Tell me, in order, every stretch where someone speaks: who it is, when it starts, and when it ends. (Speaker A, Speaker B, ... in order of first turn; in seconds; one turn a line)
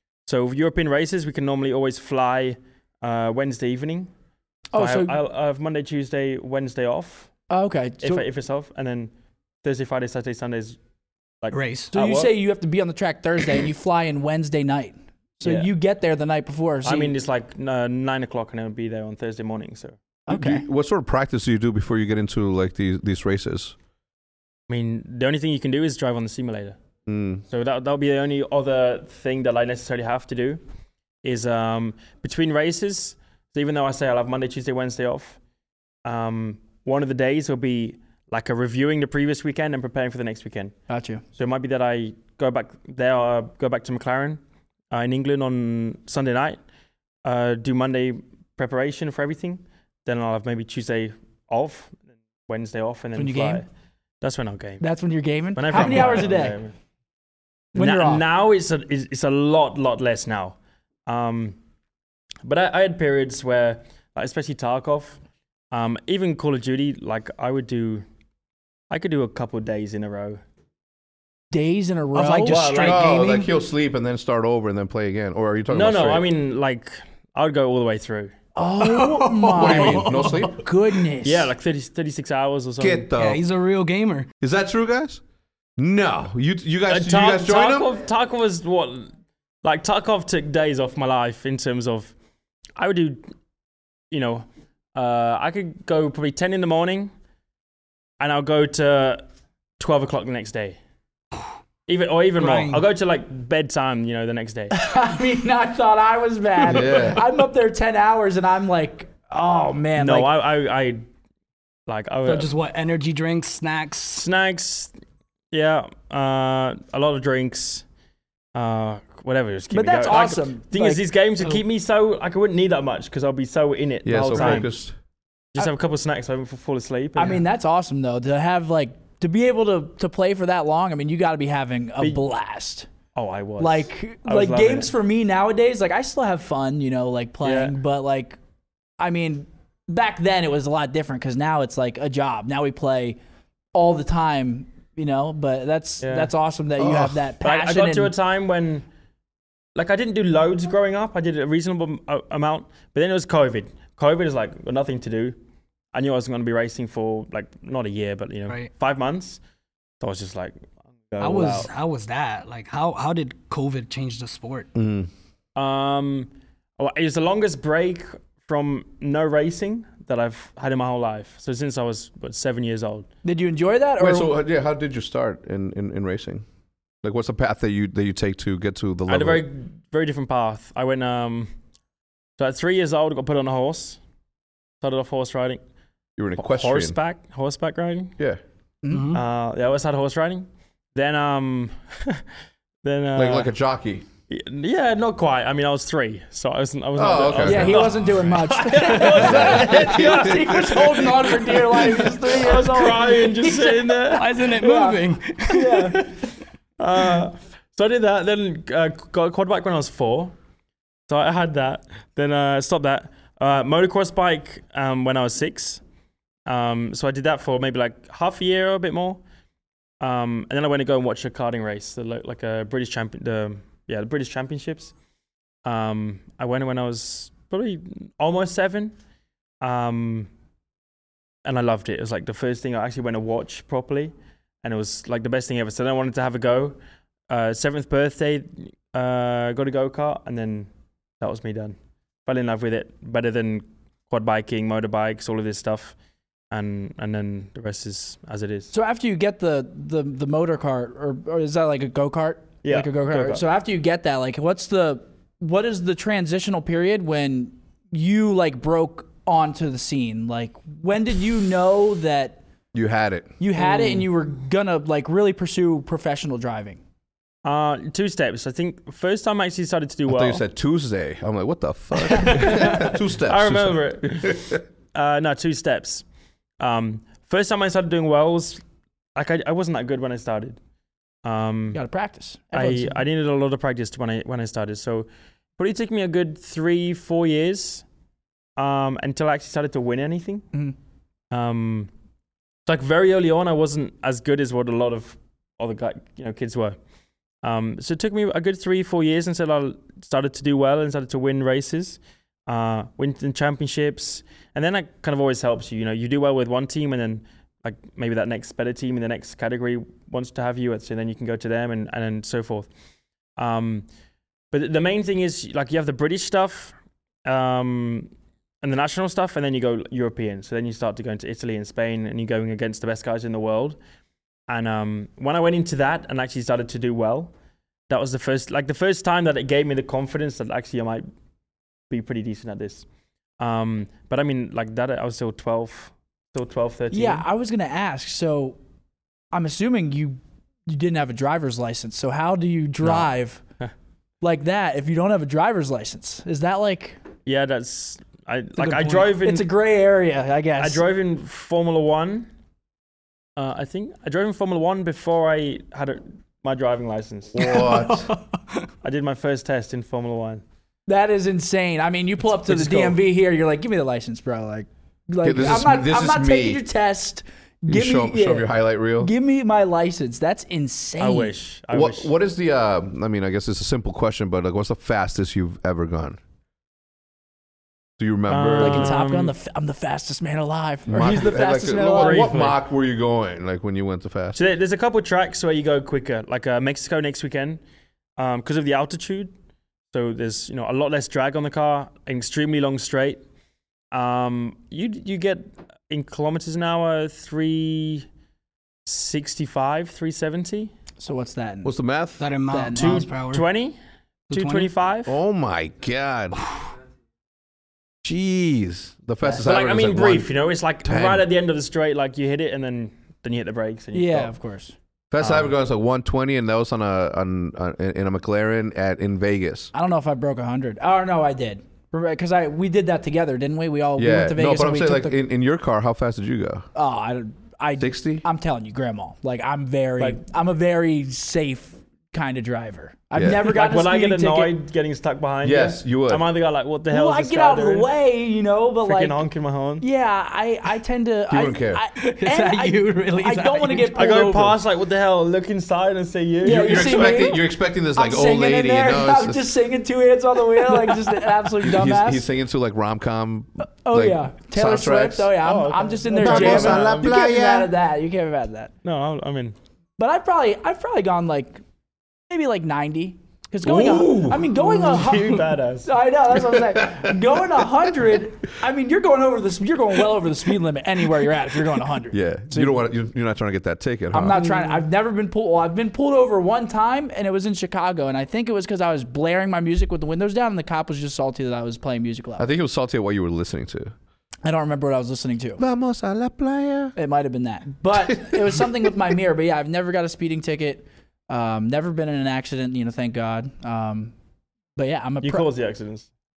Speaker A: 0.2-4.1
Speaker B: 4.7-5.2
Speaker A: 4.8-7.3
Speaker B: 7.5-8.2
Speaker A: 8.0-9.1
Speaker A: 9.6-10.8
Speaker A: 11.4-12.3
Speaker C: 11.5-11.9
Speaker B: 11.9-17.1
Speaker A: 15.4-15.7
Speaker A: 16.8-20.0
Speaker B: 20.3-20.6
Speaker D: 20.3-23.7
Speaker A: 24.7-26.8
Speaker D: 27.1-27.4
Speaker A: 27.5-30.6
Speaker A: 31.2-35.4
Speaker A: 36.0-40.7
Speaker B: 40.9-41.2
Speaker A: 41.3-44.4
Speaker A: 44.9-46.6
Speaker A: 47.2-53.6
Speaker B: 53.1-53.6
Speaker A: 54.2-54.8
Speaker B: 54.8-56.5
Speaker A: 55.5-56.7
Speaker B: 57.7-58.2
Speaker A: 57.7-60.5
Speaker A: 61.1-61.6
Speaker A: 62.4-65.2
Speaker A: 65.7-68.0
Speaker A: 68.9-70.4
Speaker B: 71.5-72.8
Speaker C: 72.1-73.5
Speaker A: 72.4-73.1
Speaker D: 72.8-76.2
Speaker A: 75.7-78.3
Speaker B: 78.5-81.5
Speaker C: 78.8-80.5
Speaker D: 79.5-80.6
Speaker A: 81.2-83.1
Speaker D: 82.8-83.4
Speaker C: 83.2-84.3
Speaker D: 84.4-85.2
Speaker D: 85.8-87.9
Speaker A: 86.9-89.1
Speaker A: 89.6-92.1
Speaker A: 92.8-93.2
Speaker A: 94.1-97.1
Speaker A: 98.2-99.2
Speaker A: 99.8-100.8
Speaker A: 101.9-104.7
Speaker C: 102.4-102.8
Speaker B: 104.7-110.3
Speaker D: 106.7-107.2
Speaker A: 110.0-111.0
Speaker A: 111.9-112.5
Speaker C: 112.2-114.3
Speaker A: 114.2-114.9
Speaker A: 115.5-117.8
Speaker A: 118.5-124.7
Speaker B: 119.7-121.0
Speaker D: 124.0-124.9
Speaker A: 125.5-127.4
Speaker B: 127.2-132.9
Speaker A: 133.1-134.9
Speaker B: 133.6-138.4
Speaker A: 137.4-137.7
Speaker B: 139.0-143.2
Speaker B: 143.7-148.1
Speaker A: 146.0-146.3
Speaker D: 146.8-147.2
Speaker A: 147.4-148.8
Speaker A: 149.7-155.3
Speaker A: 155.9-159.4
Speaker A: 160.0-161.7
Speaker C: 161.2-164.7
Speaker D: 164.7-165.1
Speaker A: 165.6-173.1
Speaker B: 173.2-174.3
Speaker D: 174.0-176.4
Speaker D: 177.0-179.4
Speaker A: 179.1-181.5
Speaker A: 182.4-184.0
Speaker A: 184.8-185.6
Speaker D: 186.2-187.0
Speaker A: 186.4-188.1
Speaker B: 188.8-189.2
Speaker C: 188.9-189.2
Speaker A: 189.1-192.2
Speaker A: 192.8-193.5
Speaker D: 193.2-194.0
Speaker A: 194.3-204.4
Speaker D: 197.0-197.8
Speaker B: 197.4-205.0
Speaker D: 199.2-200.4
Speaker C: 204.1-205.9
Speaker A: 205.5-206.1
Speaker B: 205.6-205.9
Speaker A: 206.8-210.3
Speaker A: 211.1-215.8
Speaker A: 216.4-219.2
Speaker A: 220.0-224.9
Speaker A: 225.6-228.9
Speaker A: 229.6-230.3
Speaker A: 231.4-236.8
Speaker A: 237.3-245.9
Speaker A: 246.5-248.7
Speaker B: 248.7-262.4
Speaker A: 252.6-253.4
Speaker D: 262.7-263.4
Speaker B: 263.4-266.8
Speaker C: 263.6-264.0
Speaker A: 267.4-270.4
Speaker D: 270.1-274.6
Speaker A: 272.1-276.0
Speaker A: 276.6-278.6
Speaker A: 279.1-280.6
Speaker A: 281.2-281.8
Speaker B: 281.7-283.0
Speaker A: 282.5-287.8
Speaker A: 288.6-290.4
Speaker A: 291.3-291.9
Speaker A: 292.6-296.8
Speaker A: 297.4-312.7
Speaker A: 313.4-313.9
Speaker A: 314.5-316.7
Speaker A: 317.2-318.1
Speaker A: 318.6-323.8
Speaker A: 324.5-327.3
Speaker A: 327.9-331.0
Speaker A: 331.9-332.9
Speaker A: 333.4-337.2
Speaker B: 336.9-338.6
Speaker B: 339.3-343.4
Speaker B: 344.2-347.0
Speaker A: 347.2-349.5
Speaker C: 348.7-348.9
Speaker B: 349.1-350.8
Speaker A: 350.6-352.3
Speaker A: 353.4-357.4
Speaker D: 357.3-358.1
Speaker A: 358.8-360.4
Speaker B: 360.9-371.3
Speaker A: 362.6-362.9
Speaker D: 365.2-366.6
Speaker D: 367.7-369.1
Speaker A: 371.0-372.1
Speaker D: 371.7-376.2
Speaker D: 378.0-378.9
Speaker A: 378.3-379.3
Speaker B: 378.6-382.5
Speaker D: 380.9-384.4
Speaker A: 381.0-382.6
Speaker A: 384.3-387.6
Speaker A: 388.2-389.3
Speaker A: 389.9-393.2
Speaker A: 393.9-398.1
Speaker A: 398.9-400.7
Speaker B: 401.0-401.7
Speaker D: 401.6-402.3
Speaker C: 402.2-403.4
Speaker B: 402.5-403.1
Speaker A: 402.8-403.8
Speaker A: 404.3-405.2
Speaker C: 404.3-404.7
Speaker D: 405.1-406.4
Speaker D: 408.0-410.3
Speaker A: 409.4-414.3
Speaker D: 410.8-411.2
Speaker B: 413.9-414.7
Speaker D: 415.1-419.7
Speaker A: 415.2-415.5
Speaker B: 419.7-425.2
Speaker D: 424.0-426.7
Speaker B: 426.7-434.5
Speaker D: 427.8-428.2
Speaker D: 433.1-433.5
Speaker A: 433.4-437.9
Speaker D: 435.4-436.2
Speaker B: 436.9-439.2
Speaker A: 438.8-439.9
Speaker B: 439.8-444.6
Speaker D: 441.3-441.8
Speaker C: 442.0-444.1
Speaker A: 443.9-447.3
Speaker D: 446.4-449.5
Speaker B: 446.4-452.2
Speaker C: 450.6-451.4
Speaker D: 451.6-455.4
Speaker B: 453.9-458.7
Speaker A: 455.4-457.1
Speaker D: 456.1-457.7
Speaker A: 458.8-459.6
Speaker B: 460.0-461.6
Speaker B: 462.3-472.8
Speaker D: 463.6-464.7
Speaker A: 464.5-465.9
Speaker D: 466.4-467.7
Speaker D: 472.1-474.4
Speaker B: 474.1-482.5
Speaker C: 474.4-474.8
Speaker D: 482.4-483.9
Speaker B: 484.4-485.6
Speaker D: 485.6-486.9
Speaker B: 486.9-494.1
Speaker D: 488.0-488.5
Speaker B: 494.8-495.5
Speaker A: 495.2-496.1